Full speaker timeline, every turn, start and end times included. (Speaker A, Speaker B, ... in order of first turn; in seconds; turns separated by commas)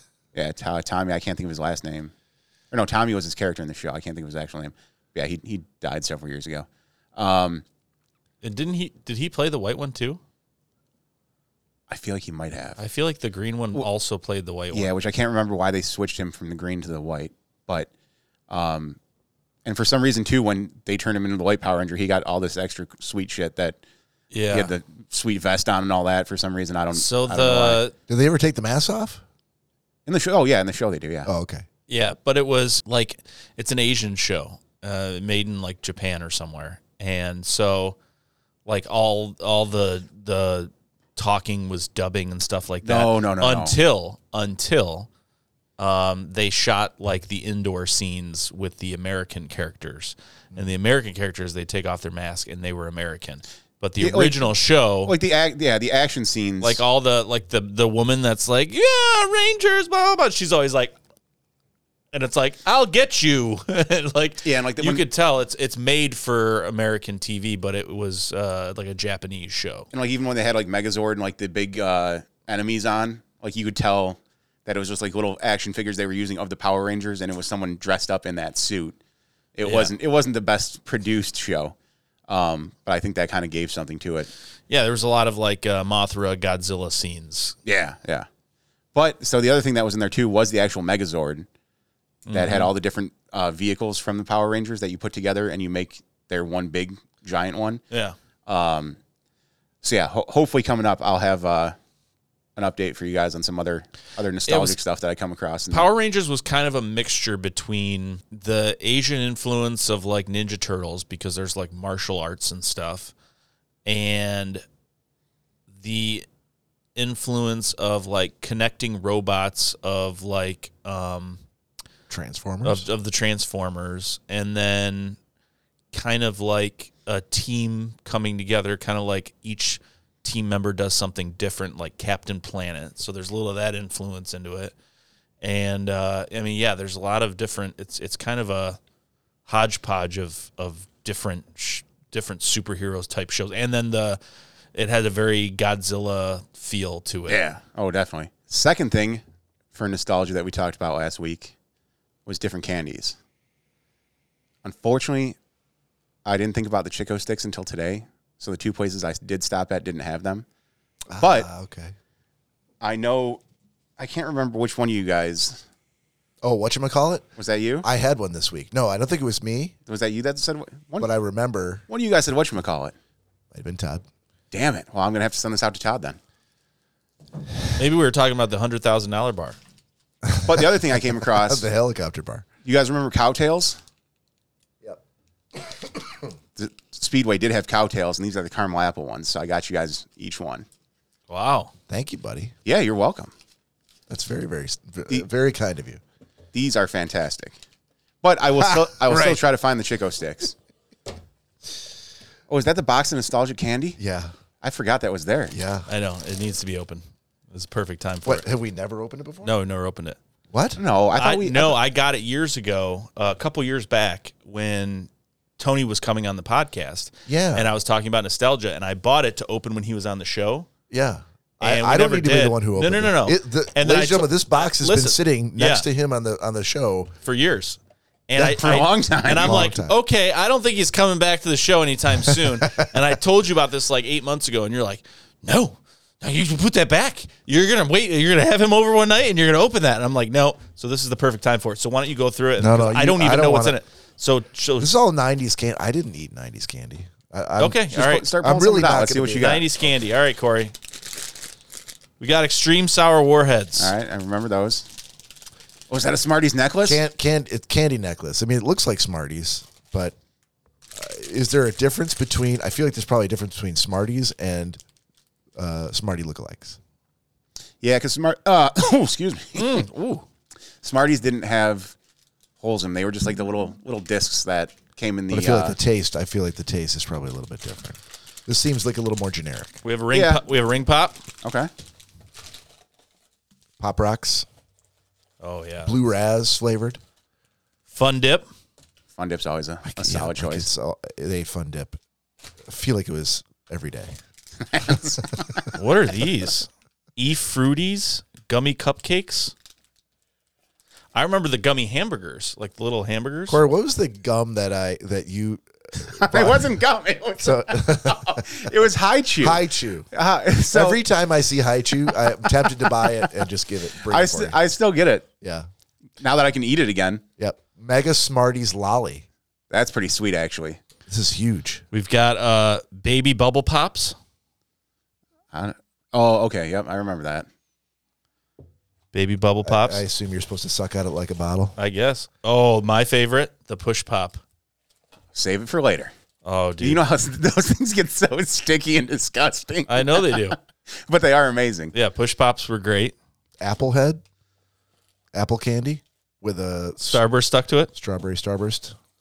Speaker A: 0.3-2.1, Speaker A: 2.7-7.6, Speaker B: 8.4-10.2, Speaker A: 11.9-12.8, Speaker B: 12.8-14.9, Speaker A: 14.7-17.9, Speaker A: 18.5-19.0, Speaker A: 19.6-23.8, Speaker B: 24.3-24.7, Speaker A: 24.5-27.8, Speaker B: 26.9-27.9, Speaker C: 28.1-29.2, Speaker A: 30.1-31.3, Speaker C: 31.2-31.6, Speaker B: 31.9-38.0, Speaker B: 38.6-45.1, Speaker A: 42.8-43.8, Speaker B: 45.8-55.1, Speaker A: 54.0-54.5, Speaker A: 55.0-56.8, Speaker B: 56.6-61.0, Speaker B: 62.1-69.9, Speaker A: 64.4-65.0, Speaker A: 69.9-79.0, Speaker A: 79.5-81.7, Speaker B: 79.6-79.9, Speaker A: 82.3-84.3, Speaker B: 84.7-87.5, Speaker A: 87.6-88.3, Speaker A: 88.9-91.5, Speaker B: 92.3-92.7, Speaker A: 92.3-97.8, Speaker B: 97.9-98.2, Speaker A: 98.5-99.0, Speaker A: 99.8-101.8, Speaker A: 102.5-105.9, Speaker B: 104.5-104.8, Speaker B: 105.7-113.1, Speaker B: 113.8-114.6, Speaker B: 115.8-116.2, Speaker B: 117.0-121.4, Speaker C: 122.1-122.8, Speaker B: 122.6-125.2, Speaker B: 125.9-134.7, Speaker B: 135.4-138.8, Speaker B: 139.4-144.2, Speaker B: 144.7-147.4, Speaker A: 147.3-149.2, Speaker A: 149.7-151.5, Speaker A: 152.2-153.2, Speaker A: 154.6-155.4, Speaker A: 156.2-160.4, Speaker C: 161.1-161.9, Speaker A: 161.2-161.5, Speaker A: 162.8-163.4, Speaker A: 164.0-165.6, Speaker C: 166.4-167.2, Speaker A: 167.4-167.9, Speaker C: 167.8-169.7, Speaker A: 169.9-171.1, Speaker C: 171.0-171.8, Speaker A: 171.9-172.9, Speaker C: 173.5-174.0, Speaker A: 174.5-176.2, Speaker B: 177.8-179.6, Speaker C: 180.2-182.4, Speaker A: 180.4-181.7, Speaker A: 182.6-183.8, Speaker C: 185.5-186.2, Speaker A: 186.6-190.7, Speaker B: 191.3-191.7, Speaker C: 191.9-192.5, Speaker A: 192.6-193.3, Speaker C: 194.1-196.0, Speaker A: 196.5-197.6, Speaker A: 198.2-200.6, Speaker C: 198.6-199.4, Speaker A: 202.5-204.0, Speaker C: 204.0-204.3, Speaker A: 204.6-205.5, Speaker C: 205.5-205.9, Speaker B: 205.9-208.4, Speaker C: 208.2-209.5, Speaker B: 209.4-210.2, Speaker C: 210.5-210.8, Speaker A: 210.8-211.8, Speaker B: 211.2-220.7, Speaker C: 217.3-217.7, Speaker C: 220.9-227.1, Speaker B: 221.6-225.9, Speaker B: 227.2-244.9, Speaker C: 228.4-228.7, Speaker A: 228.4-229.6, Speaker C: 229.2-229.9, Speaker C: 232.2-232.9, Speaker C: 242.6-243.8, Speaker C: 244.8-249.6, Speaker B: 247.6-248.2, Speaker A: 247.9-249.7, Speaker B: 249.4-250.7, Speaker B: 252.2-253.9, Speaker A: 253.8-254.9, Speaker A: 255.9-257.0, Speaker C: 256.8-260.1, Speaker C: 260.9-264.8, Speaker C: 265.6-266.8, Speaker A: 267.8-269.8, Speaker B: 269.5-270.2, Speaker A: 270.8-271.9, Speaker A: 272.6-275.8, Speaker C: 275.3-279.8, Speaker B: 279.8-281.2, Speaker A: 280.1-280.4, Speaker A: 281.4-281.7, Speaker C: 283.8-284.5, Speaker B: 285.4-285.9, Speaker C: 285.8-287.0, Speaker B: 287.9-288.5, Speaker A: 289.2-290.7, Speaker C: 289.9-292.0, Speaker C: 292.6-294.1, Speaker A: 294.6-295.7, Speaker C: 294.9-295.4, Speaker B: 295.7-299.5, Speaker B: 301.1-303.6, Speaker C: 303.5-306.8, Speaker A: 306.0-311.0, Speaker C: 307.4-308.6, Speaker C: 309.4-310.1, Speaker C: 310.7-314.6, Speaker A: 312.1-313.3, Speaker A: 314.1-315.2, Speaker C: 315.4-315.7, Speaker A: 316.2-317.2, Speaker C: 317.4-319.2, Speaker A: 319.7-320.8, Speaker C: 321.1-321.8, Speaker B: 321.9-324.1, Speaker A: 325.5-327.5, Speaker B: 329.1-330.0, Speaker C: 329.6-331.8, Speaker B: 331.8-334.4, Speaker A: 335.3-336.1, Speaker B: 336.4-337.0, Speaker A: 336.8-341.9, Speaker B: 339.9-340.6, Speaker B: 341.9-343.1, Speaker C: 343.6-344.2, Speaker C: 345.3-347.2, Speaker B: 347.0-347.9, Speaker C: 347.9-348.9